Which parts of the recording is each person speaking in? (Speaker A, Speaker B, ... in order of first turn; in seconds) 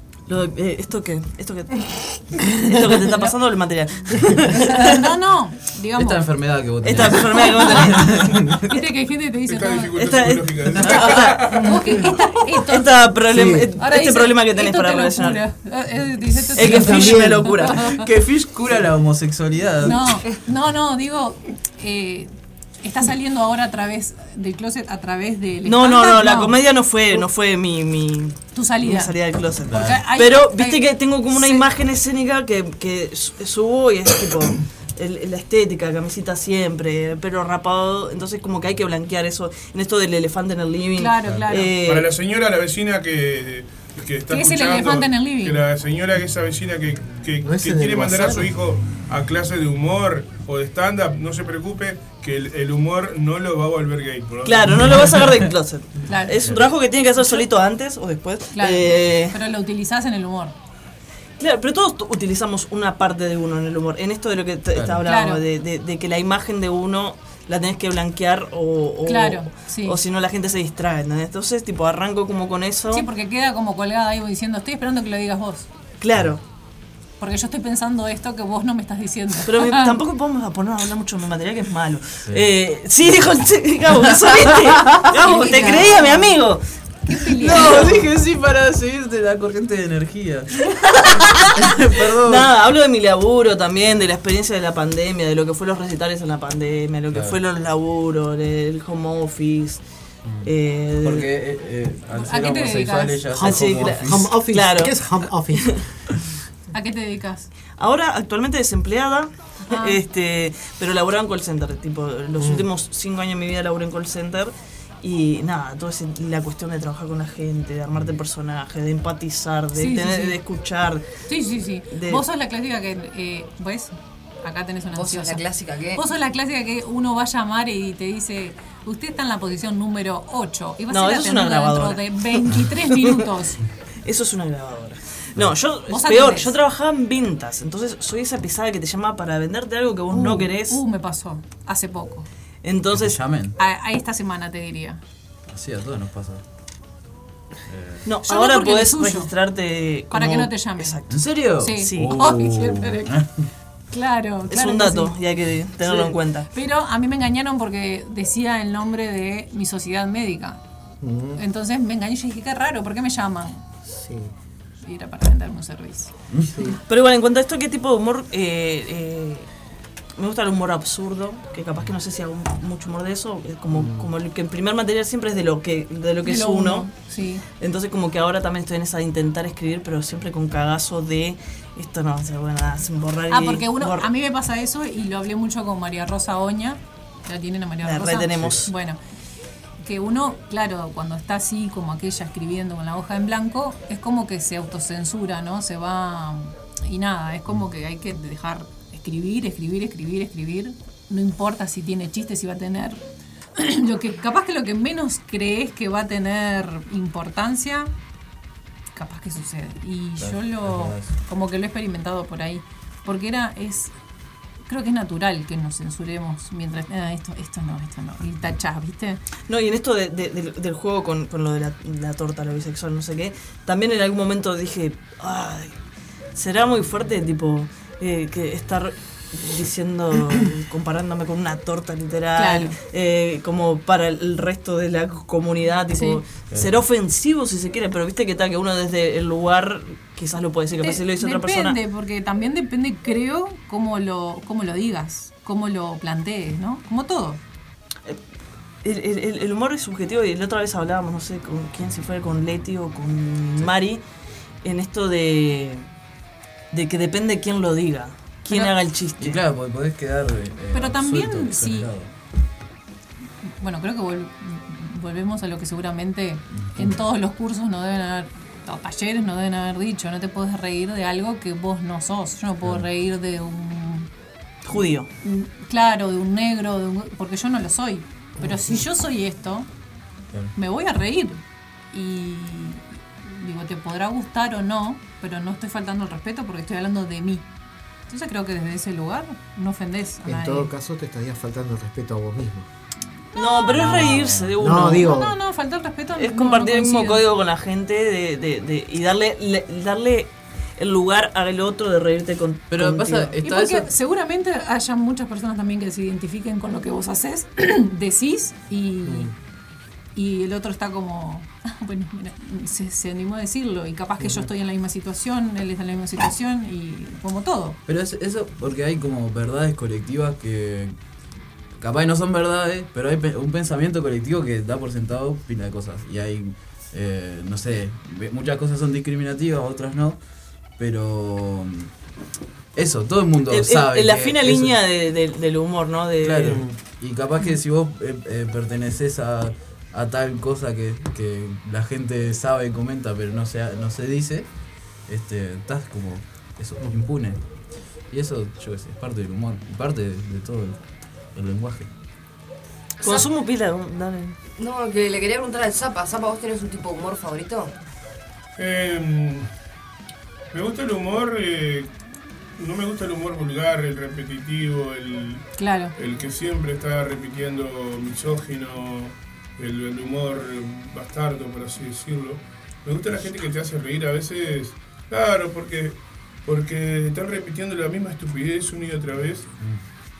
Speaker A: 0.3-5.0, 6.8-8.7, 10.0-11.7, 12.6-15.4, 16.5-17.9, 25.6-42.1, 54.4-59.4, 61.4-73.1, 76.0-76.4, 79.5-86.6, 87.4-88.1, 90.7-99.8, 100.4-101.3, 103.4-104.9, 105.5-105.8, 107.8-121.0, 121.9-122.2, 130.9-133.2, 134.0-140.8, 142.6-143.2, 148.0-151.2, 151.8-152.2, 154.5-156.5, 166.9-169.5, 170.2-176.9, 177.6-184.1, 187.8-188.7, 219.5-225.8, 226.3-241.8, 248.8-254.0, 254.6-255.8, 256.7-259.4, 274.6-275.1, 293.3-295.1, 296.2-303.4, 333.5-336.6, 353.0-354.4
Speaker B: 4.5-6.2, 7.1-10.1, 11.5-18.1, 19.8-26.6, 28.5-31.6, 41.0-41.7, 44.3-45.6, 56.1-56.4, 57.2-57.4, 58.5-60.5, 65.0-65.4, 69.0-70.0, 72.9-75.7, 77.2-80.0, 85.2-86.3, 87.1-88.0, 102.1-103.2, 106.7-107.5, 109.7-110.0, 119.7-120.4, 121.3-133.6, 135.9-136.5, 140.1-142.3, 143.6-145.0, 148.2-149.3, 150.1-151.0, 151.6-153.2, 153.9-155.1, 155.8-160.6, 161.3-163.6, 164.8-166.1, 176.2-177.4, 183.3-189.0, 189.8-203.0, 203.6-207.9, 208.9-213.9, 214.7-219.2, 232.4-232.8, 235.9-236.2, 240.8-247.4, 260.7-261.9, 263.6-274.1, 275.2-279.7, 280.5-287.4, 288.1-290.7, 293.3-293.8, 294.9-297.2, 303.4-309.3, 310.1-317.8, 365.6-365.9
Speaker C: 6.0-8.6, 17.8-20.2, 29.6-30.0, 56.4-56.7, 64.7-65.0, 87.4-92.5, 97.1-97.4, 100.2-104.4, 142.9-143.6, 145.5-146.4, 147.7-148.1, 151.1-153.5, 210.2-211.1, 259.2-262.1, 266.6-266.9, 293.7-294.5, 302.7-303.9, 317.9-320.9, 321.8-330.2, 330.8-331.9, 332.7-334.8, 336.2-344.5, 345.1-347.4, 348.1-350.8, 351.3-351.9
Speaker D: 9.5-11.7, 41.8-54.9, 358.6-359.5, 360.5-361.9, 362.6-365.4, 365.9-379.5
Speaker E: 13.3-13.7, 16.6-17.5, 47.4-48.5, 103.3-105.8, 161.0-161.4, 163.8-164.3, 166.5-166.8, 173.7-174.1, 290.2-292.7, 294.6-295.3, 309.1-309.3
Speaker F: 85.2-86.3, 124.9-126.0, 354.6-357.7